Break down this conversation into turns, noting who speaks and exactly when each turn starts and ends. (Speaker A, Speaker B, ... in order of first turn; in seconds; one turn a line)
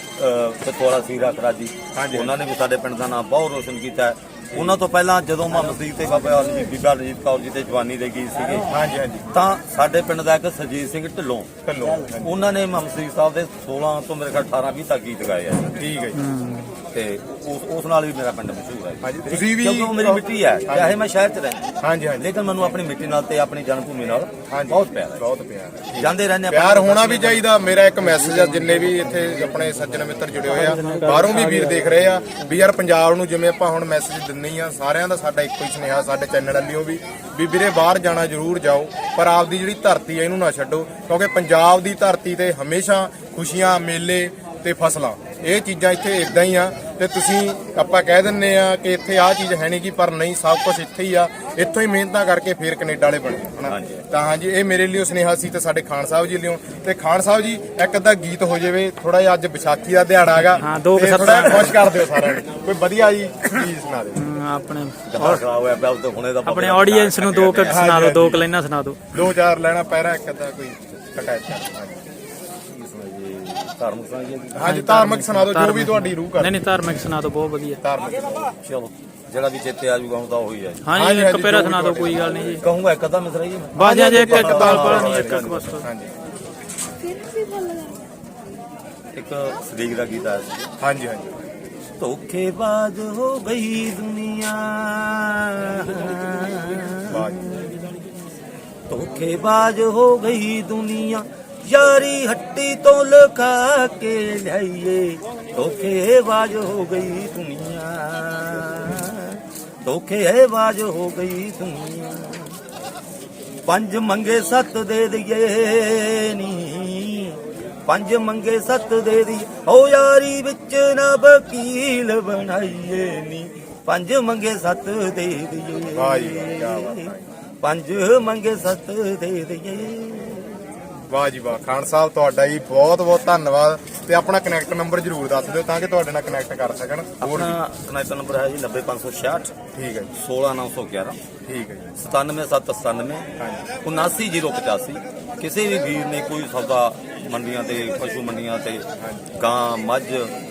Speaker A: 0.2-8.7
Speaker B: 1.9-2.3
Speaker B: 4.5-4.8
Speaker B: 8.7-9.3
Speaker A: 9.3-15.8
Speaker B: 11.7-12.3
Speaker B: 15.8-16.2
Speaker C: 16.1-16.7
Speaker A: 16.9-21.6
Speaker B: 19.0-21.0
Speaker B: 21.8-22.3
Speaker A: 22.2-25.3
Speaker B: 24.5-64.2
Speaker A: 26.0-27.5
Speaker C: 30.5-31.9
Speaker A: 53.6-54.1
Speaker C: 60.6-62.2
Speaker C: 64.2-65.4
Speaker A: 65.1-67.8
Speaker C: 66.4-69.0
Speaker B: 67.7-68.5
Speaker B: 69.1-72.0
Speaker A: 72.7-74.7
Speaker B: 74.5-76.6
Speaker C: 74.6-77.8
Speaker B: 77.8-78.5
Speaker A: 78.6-80.9
Speaker C: 80.8-82.6
Speaker B: 80.9-82.6
Speaker A: 82.6-85.8
Speaker C: 83.8-85.9
Speaker B: 83.8-86.1
Speaker A: 89.1-90.7
Speaker B: 90.8-91.4
Speaker A: 92.0-98.0
Speaker B: 97.1-97.4
Speaker A: 98.9-112.6
Speaker A: 113.7-130.6
Speaker B: 126.0-127.2
Speaker B: 131.1-137.6
Speaker A: 137.2-139.5
Speaker B: 139.7-140.1
Speaker A: 140.1-141.2
Speaker B: 141.4-141.9
Speaker A: 142.0-143.3
Speaker B: 143.4-143.6
Speaker A: 143.8-150.3
Speaker B: 149.0-149.3